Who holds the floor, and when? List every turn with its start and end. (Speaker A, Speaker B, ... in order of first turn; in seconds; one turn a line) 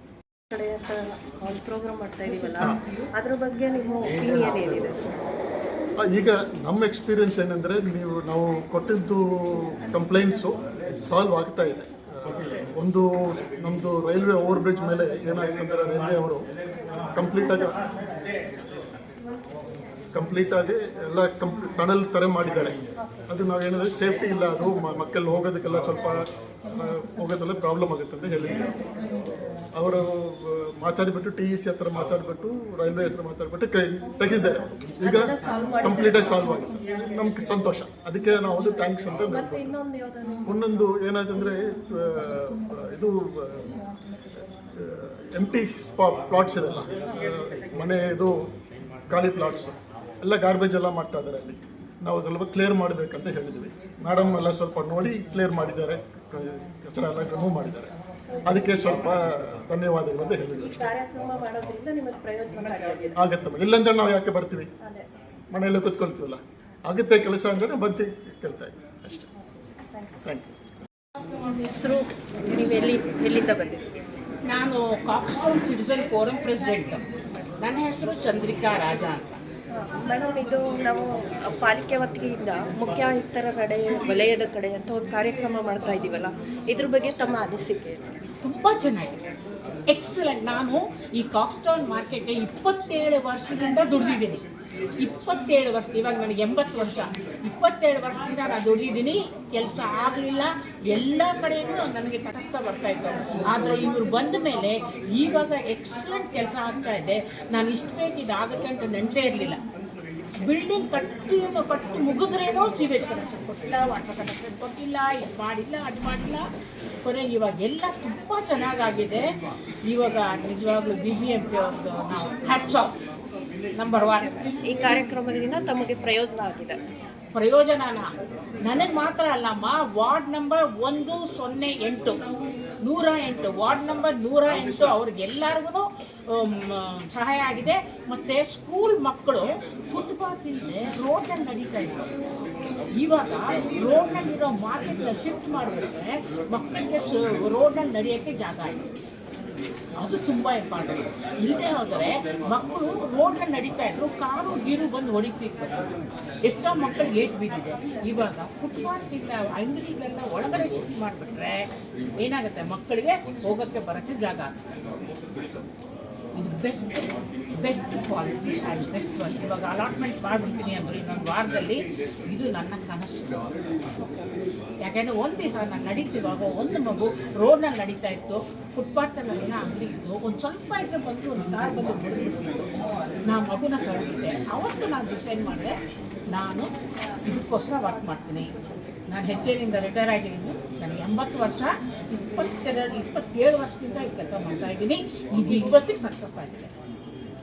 Speaker A: 0.5-5.0
Speaker B: 4.4-4.8
Speaker B: 6.0-16.5
Speaker B: 17.1-17.8
Speaker B: 20.1-22.8
Speaker B: 23.3-28.8
Speaker B: 29.8-39.7
Speaker A: 35.0-36.6
Speaker A: 39.3-40.4
Speaker B: 40.4-43.8
Speaker B: 44.7-48.5
Speaker B: 49.1-57.9
Speaker A: 58.4-58.9
Speaker B: 58.4-60.9
Speaker A: 60.6-63.2
Speaker B: 63.1-64.7
Speaker B: 65.5-69.3
Speaker A: 69.9-70.2
Speaker B: 70.2-70.5
Speaker A: 71.5-73.8
Speaker C: 74.5-77.0
Speaker C: 77.6-79.4
Speaker A: 79.8-88.0
Speaker C: 88.4-89.2
Speaker C: 89.9-94.4
Speaker C: 95.0-109.6
Speaker C: 110.4-116.5
Speaker C: 117.0-119.3
Speaker C: 119.8-123.0
Speaker C: 123.8-124.3
Speaker A: 124.2-126.8
Speaker C: 127.3-132.2
Speaker C: 132.8-142.1
Speaker C: 142.9-148.9
Speaker C: 150.0-155.9
Speaker C: 156.4-164.6
Speaker C: 166.3-173.4
Speaker A: 174.0-174.3
Speaker C: 174.8-182.7
Speaker C: 183.2-185.8
Speaker C: 186.3-186.7
Speaker C: 187.2-188.5
Speaker C: 189.1-196.7